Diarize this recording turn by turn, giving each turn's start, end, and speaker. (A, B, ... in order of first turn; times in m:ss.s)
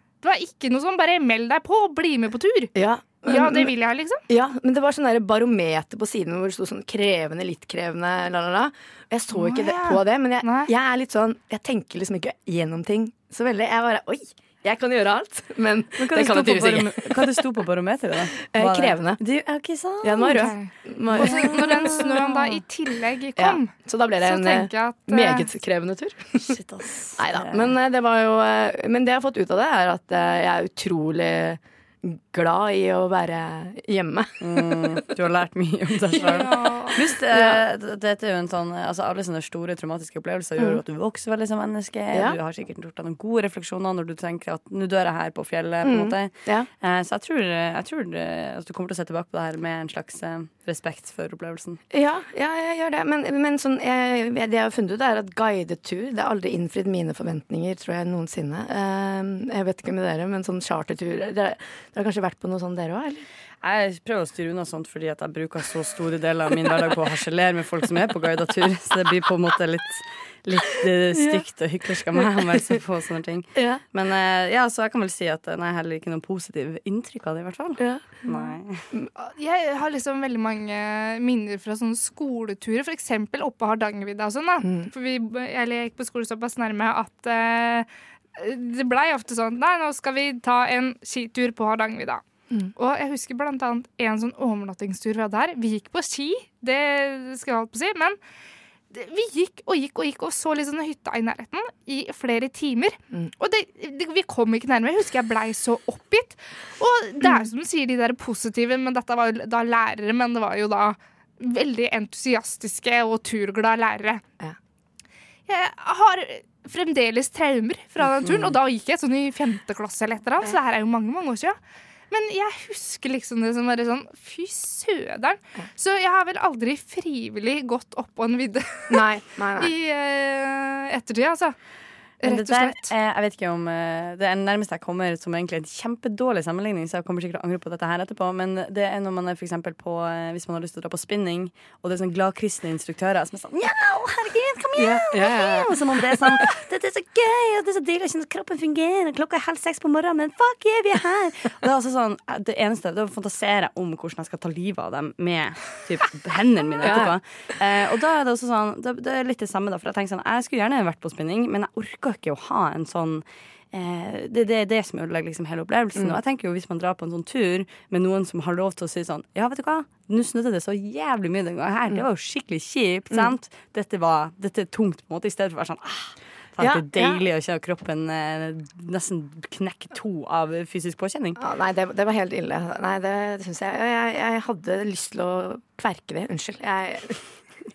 0:00.2-0:02.7 A
0:02.7-0:03.7 B
0:03.2-0:04.2 A
0:04.3-0:17.5 B
0:09.3-0:10.7 A
0:16.0-0:20.5 C
0:18.4-0:19.2 B
0:20.0-0:22.1 B
0:20.3-0:25.5 A
0:21.1-0:22.4 C
0:23.4-0:26.6 B
0:26.4-0:27.8 C
0:27.2-0:35.0 B
0:34.4-0:51.8 C
0:36.2-0:37.0 A
0:37.0-0:37.6 B
0:40.6-0:40.8 B
0:42.1-0:42.4 B
0:45.8-0:46.7 B
0:51.9-1:03.2 B
1:03.6-1:18.9 C
1:11.1-1:11.4 B
1:12.1-1:12.8 B
1:13.5-1:13.8 B
1:17.8-1:18.0 B
1:18.2-1:18.6 A
1:19.2-1:32.2 A
1:24.6-1:24.9 B
1:32.7-1:38.2 A
1:38.9-1:54.2 A
1:55.5-2:01.6 A
2:02.1-2:09.0 A
2:08.9-2:09.7 B
2:09.6-2:11.6 A
2:12.2-2:12.9 A
2:12.2-3:01.4 C
2:24.8-2:26.4 B
2:36.8-2:37.2 B
2:56.6-2:57.2 B
3:01.4-3:07.2 B